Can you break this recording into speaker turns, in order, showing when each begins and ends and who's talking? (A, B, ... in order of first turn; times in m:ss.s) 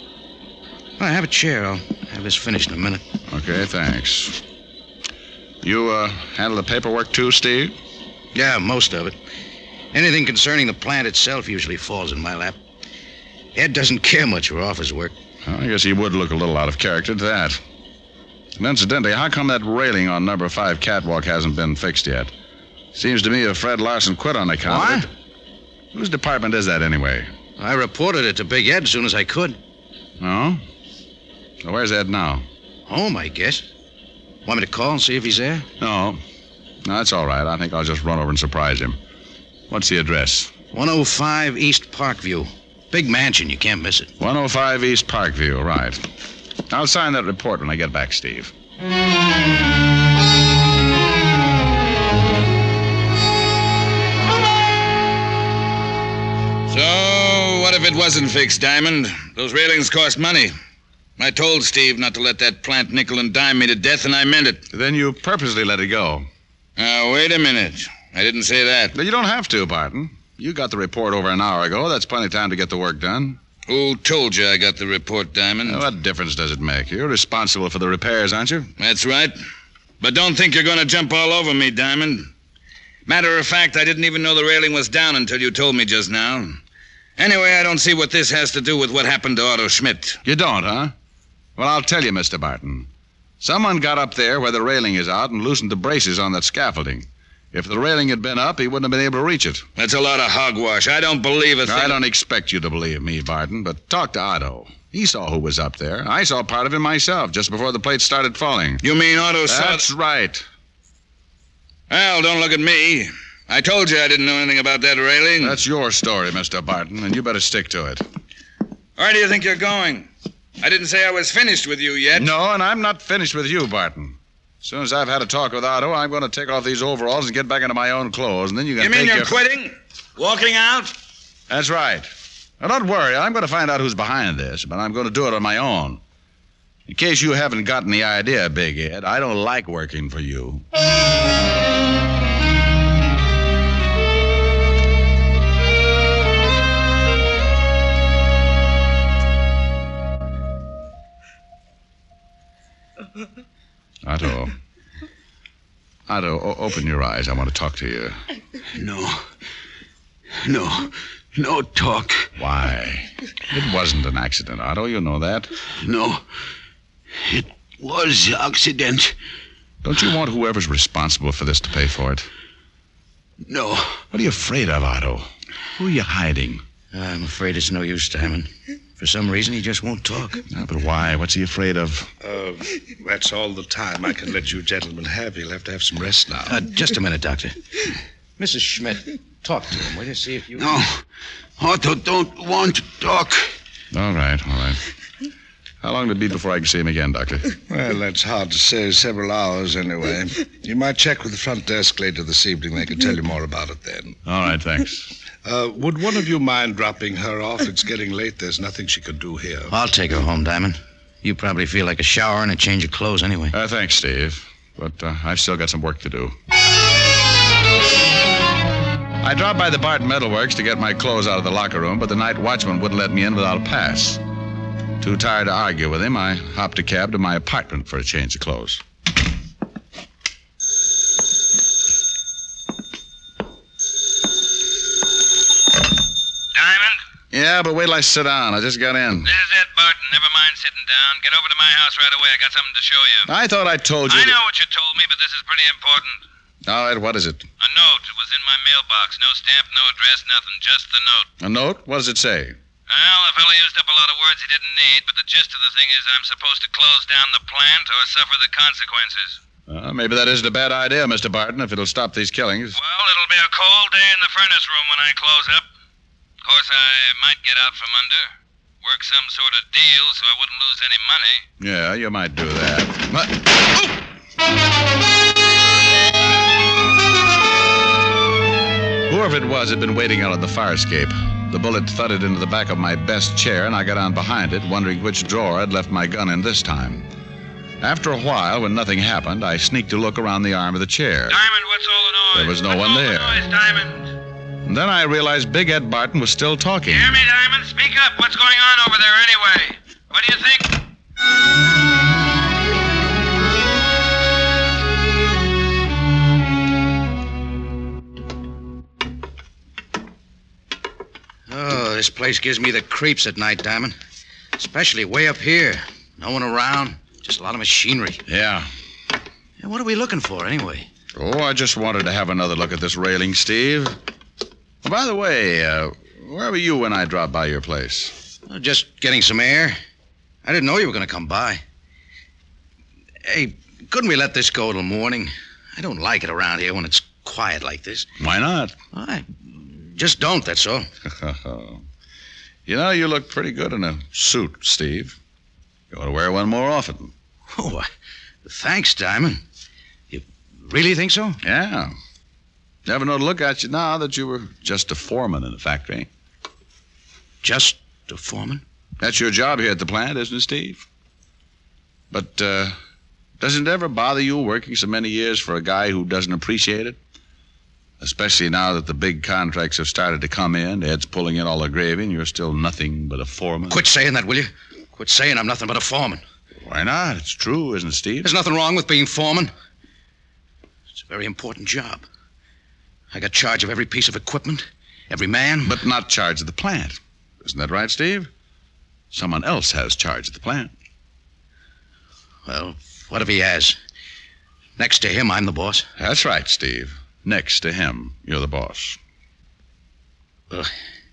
0:01.0-0:03.0 A
0:03.3-0:04.4 B
0:05.6-0:07.8 B
0:08.3-0:09.2 A
0:09.9-0:12.6 A
0:13.6-0:15.1 A
0:15.4-0:17.6 B
0:18.6-0:22.3 B
0:22.9-0:25.1 B
0:25.9-0:27.3 B
0:27.6-0:29.6 A
0:30.2-0:30.6 B
0:31.6-0:32.4 B
0:32.9-0:33.6 A
0:34.5-0:35.7 A
0:35.8-0:36.2 B
0:36.8-0:39.0 B
0:39.7-0:40.5 B
0:40.7-0:44.1 A
0:44.2-0:46.1 B
0:46.7-0:48.5 B
0:56.7-1:00.5 C
1:01.2-1:04.6 C
1:04.7-1:06.3 B
1:06.8-1:08.9 C
1:08.9-1:13.4 B
1:13.7-1:15.8 C
1:15.7-1:18.7 B
1:18.8-1:19.4 C
1:20.0-1:22.3 C
1:23.1-1:26.6 C
1:27.2-1:30.2 C
1:30.2-1:30.9 B
1:31.6-1:32.9 B
1:33.4-1:39.6 B
1:39.8-1:42.0 C
1:41.6-1:48.8 B
1:48.8-1:49.8 C
1:49.4-1:50.4 B
1:51.9-1:55.6 C
1:55.4-1:58.0 B
1:59.0-2:00.1 C
2:00.6-2:02.3 C
2:02.1-2:09.4 B
2:08.8-2:10.9 C
2:11.5-2:16.0 B
2:16.9-2:20.7 B
2:34.0-2:34.6 B
2:36.1-2:38.2 B
2:38.7-2:39.2 D
2:40.4-2:42.3 D
2:42.4-2:45.5 B
2:45.8-2:46.2 D
2:47.2-2:49.1 D
2:49.8-2:52.3 B
2:53.4-2:54.0 D
2:54.1-2:56.6 B
2:56.9-3:00.4 A
3:00.5-3:02.1 B
3:03.4-3:04.6 E
3:05.9-3:06.3 E
3:06.5-3:07.6 A
3:08.4-3:10.7 A
3:10.6-3:11.0 D
3:11.6-3:13.5 D
3:13.9-3:14.8 B
3:15.8-3:17.5 B
3:17.8-3:18.3 E
3:19.6-3:20.3 E
3:22.9-3:23.4 E
3:24.2-3:25.1 B
3:25.7-3:29.4 E
3:29.7-3:33.5 A
3:33.5-3:36.4 B
3:39.2-3:44.2 B
3:45.0-3:48.8 B
3:56.5-3:57.0 C
3:57.3-3:59.3 B
3:59.2-4:03.3 C
4:03.3-4:04.4 B
4:04.1-4:06.2 C
4:06.6-4:07.5 B
4:07.6-4:11.3 C
4:11.4-4:12.6 B
4:12.9-4:19.4 C
4:19.7-4:22.8 B
4:22.8-4:25.7 C
4:26.4-4:28.3 C
4:28.8-4:31.4 C
4:31.6-4:34.0 B
4:39.1-4:47.1 B
4:47.8-4:51.4 B
4:51.3-4:54.1 C
4:52.3-4:53.4 B
4:54.6-4:57.2 B
4:56.9-5:00.8 C
5:11.5-5:14.0 A
5:14.6-5:18.2 A
5:18.3-5:18.7 B
5:19.6-5:20.9 A
5:21.2-5:24.0 B
5:24.8-5:28.2 B
5:28.5-5:29.8 A
5:30.4-5:31.6 A
5:33.2-5:38.1 A
5:38.2-5:38.8 B
5:38.9-5:40.9 A
5:41.0-5:41.8 B
5:42.7-5:45.2 B
5:45.9-5:47.1 B
5:47.5-5:47.9 A
5:48.4-5:49.4 A
5:50.1-5:51.4 A
5:51.4-5:51.9 B
5:52.9-5:56.1 B
5:57.4-5:58.6 A
5:59.0-6:00.8 B
6:02.1-6:02.8 B
6:03.4-6:07.0 B
6:08.0-6:13.8 B
6:13.7-6:16.2 A
6:16.6-6:18.3 B
6:18.2-6:19.5 A
6:21.0-6:22.0 A
6:23.1-6:25.8 A
6:25.6-6:28.3 B
6:29.1-6:30.7 B
6:32.5-6:33.8 A
6:34.8-6:35.9 A
6:36.0-6:39.0 B